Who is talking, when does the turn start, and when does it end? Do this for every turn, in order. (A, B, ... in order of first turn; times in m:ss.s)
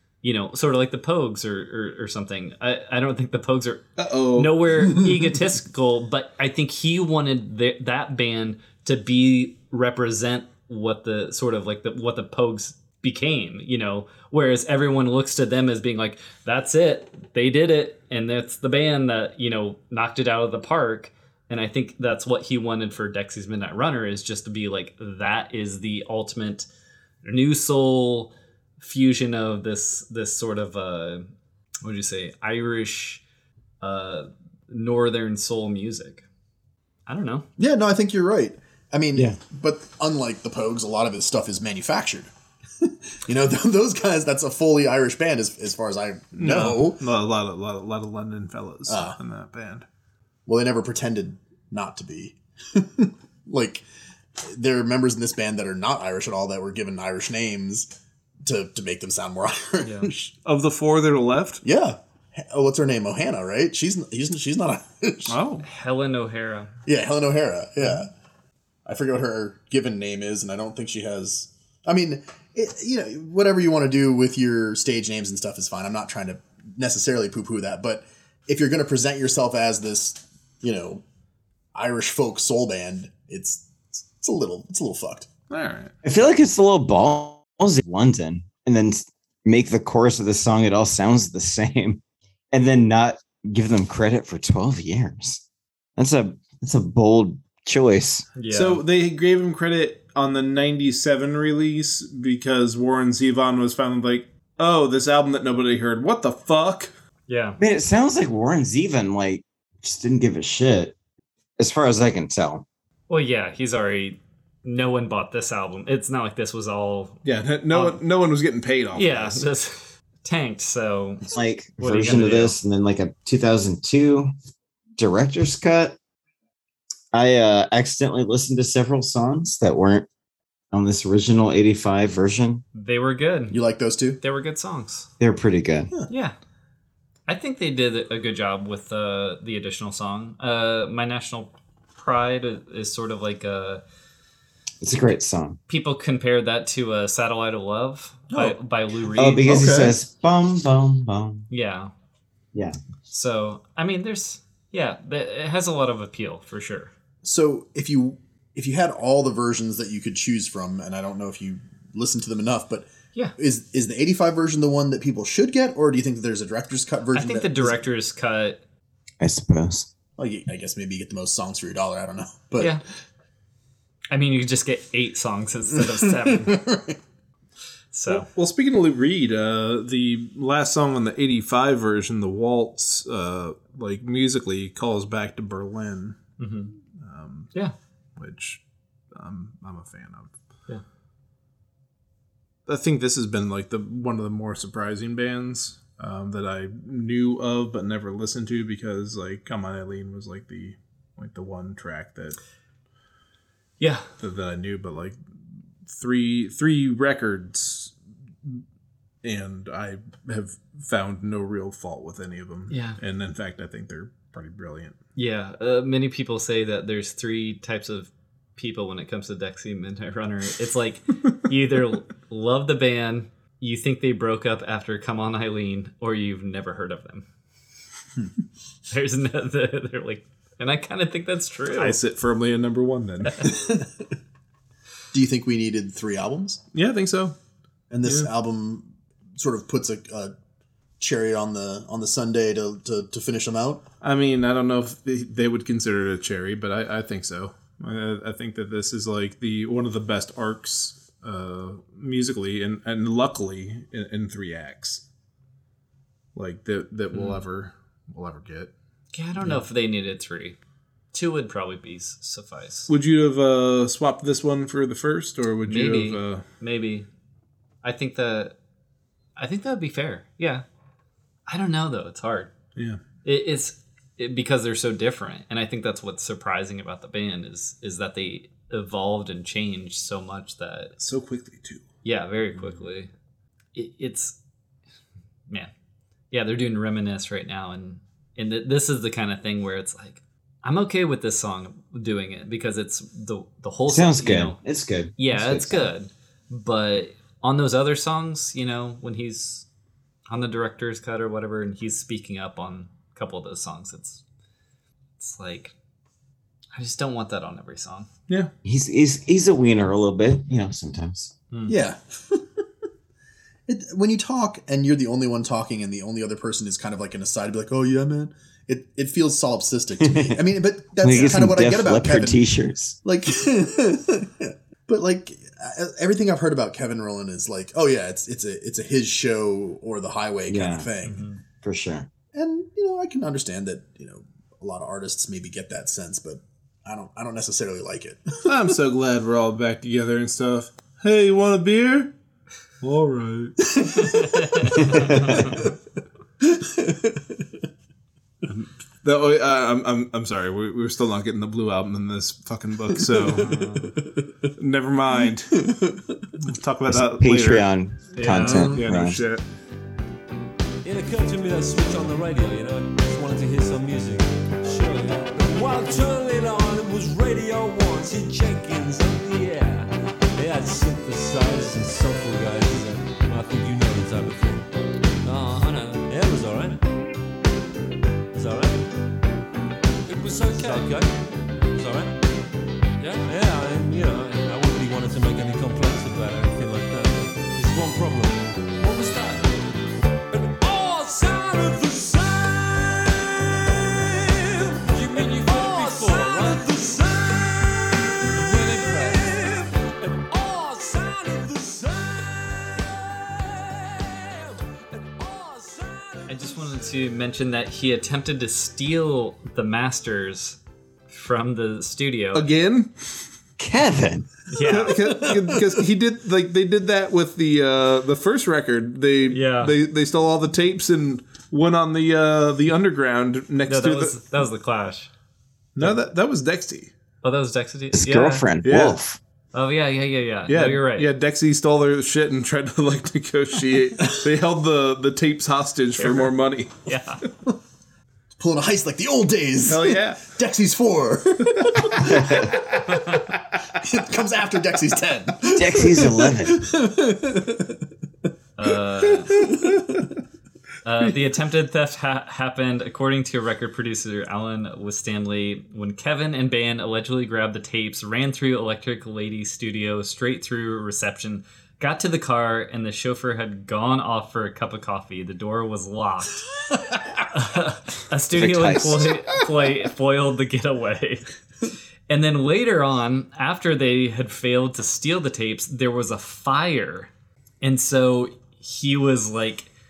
0:00.2-0:26.7 A
0:04.0-0:04.7 B
0:27.2-0:31.3 A
0:31.8-0:33.2 A
0:33.8-0:36.2 A
0:37.1-0:37.4 A
0:37.6-0:42.3 C
0:42.8-0:47.0 C
0:46.4-0:49.8 B
0:48.9-0:49.2 C
0:50.4-0:53.8 C
0:54.4-0:57.9 C
0:58.4-1:00.3 C
0:59.8-1:00.1 A
1:00.4-1:01.6 B
1:01.6-1:05.4 C
1:05.3-1:05.6 B
1:05.6-1:06.7 A
1:06.8-1:08.1 C
1:08.8-1:21.0 C
1:21.7-1:25.3 C
1:25.5-1:25.9 B
1:26.0-1:32.0 D
1:32.5-1:35.4 D
1:36.0-1:38.3 D
1:38.4-1:38.8 A
1:38.5-1:46.9 B
1:47.3-1:47.6 A
1:47.6-1:50.9 D
1:51.6-1:52.6 D
1:53.1-1:57.2 A
1:57.2-1:59.5 B
1:57.7-1:58.0 A
1:58.9-2:02.6 A
2:01.3-2:04.3 D
2:05.0-2:06.0 D
2:07.1-2:10.1 D
2:10.7-2:12.6 D
2:12.7-2:13.6 A
2:13.5-2:14.2 C
2:14.2-2:15.1 A
2:15.2-2:15.9 D
2:16.1-2:16.3 A
2:17.3-2:23.8 A
2:24.8-2:25.6 D
2:25.7-2:29.9 A
2:29.2-2:31.5 D
2:29.4-2:30.0 C
2:31.5-2:31.9 A
2:33.1-2:36.9 A
2:37.2-2:47.8 C
2:47.1-2:48.6 A
2:49.2-2:49.9 D
2:50.2-2:52.8 C
2:54.1-2:56.6 A
2:55.7-2:57.0 C
2:57.9-2:58.3 A
2:58.1-3:06.2 B
3:06.4-3:06.7 A
3:07.0-3:07.5 B
3:08.2-3:08.6 B
3:09.1-3:10.3 B
3:12.7-3:22.4 B
3:23.8-3:24.1 A
3:24.2-3:25.2 B
3:25.8-3:28.6 B
3:29.2-3:35.0 B
3:32.7-3:33.0 A
3:35.1-3:47.2 A
3:48.9-3:52.0 A
3:51.8-3:53.5 B
3:53.4-3:53.9 C
3:55.1-3:56.6 C
3:56.7-3:57.3 B
3:57.9-4:00.3 C
4:01.0-4:03.8 C
4:04.0-4:15.0 B
4:16.3-4:18.7 B
4:17.1-4:17.4 A
4:19.1-4:20.6 A
4:21.1-4:22.9 A
4:22.9-4:26.4 B
4:25.7-4:27.1 A
4:27.8-4:28.6 A
4:29.4-4:30.6 A
4:31.5-4:32.5 A
4:32.7-4:33.0 B
4:33.2-4:40.9 A
4:41.0-4:41.8 B
4:42.0-4:43.1 A
4:43.7-4:44.4 A
4:46.3-4:54.6 A
4:53.9-4:55.9 D
4:55.2-4:59.6 A
5:00.3-5:04.2 A
5:05.2-5:05.7 A
5:06.7-5:08.1 A
5:08.6-5:11.3 D
5:11.7-5:12.5 C
5:13.7-5:22.4 C
5:20.0-5:20.4 D
5:21.0-5:23.0 D
5:23.0-5:31.2 C
5:30.5-5:30.9 D
5:31.0-5:31.4 A
5:31.6-5:32.1 D
5:32.3-5:38.5 C
5:38.4-5:42.1 B
5:42.8-5:43.6 B
5:43.7-5:45.6 C
5:43.9-5:45.7 A
5:44.7-5:45.6 B
5:46.4-5:47.6 C
5:49.0-5:53.6 B
5:53.0-5:53.8 C
5:53.4-5:53.9 A
5:54.5-5:55.7 B
5:55.6-5:56.3 C
5:56.3-5:59.4 B
5:56.9-5:59.2 D
5:58.1-5:58.8 A
6:00.8-6:14.7 E
6:15.2-6:16.0 F
6:16.0-6:16.8 E
6:18.3-6:18.9 E
6:20.0-6:22.2 E
6:20.5-6:20.9 F
6:23.0-6:29.5 E
6:30.3-6:46.8 E
6:35.1-6:36.4 F
6:38.6-6:39.2 F
6:46.3-6:52.5 A
6:52.3-6:53.2 B
6:53.6-6:54.3 D
6:54.5-6:55.1 A
6:54.6-7:04.2 B
6:55.0-6:55.8 C
6:59.3-6:59.7 A
7:03.7-7:05.1 A
7:05.8-7:06.9 B
7:07.2-7:08.4 A
7:07.9-7:09.2 D
7:08.6-7:09.0 B
7:09.5-7:11.1 A
7:10.5-7:16.7 B
7:16.0-7:16.3 A
7:16.8-7:17.2 A
7:18.4-7:22.6 C
7:19.7-7:20.3 B
7:21.6-7:22.8 B
7:22.1-7:22.4 D
7:22.9-7:23.3 A
7:23.7-7:27.9 C
7:25.5-7:26.6 D
7:28.6-7:29.4 A
7:29.3-7:30.0 C
7:29.4-7:30.0 B
7:30.8-7:46.5 A
7:47.2-7:51.2 A
7:48.3-7:49.4 D
7:52.1-7:57.1 A
7:57.6-7:59.7 A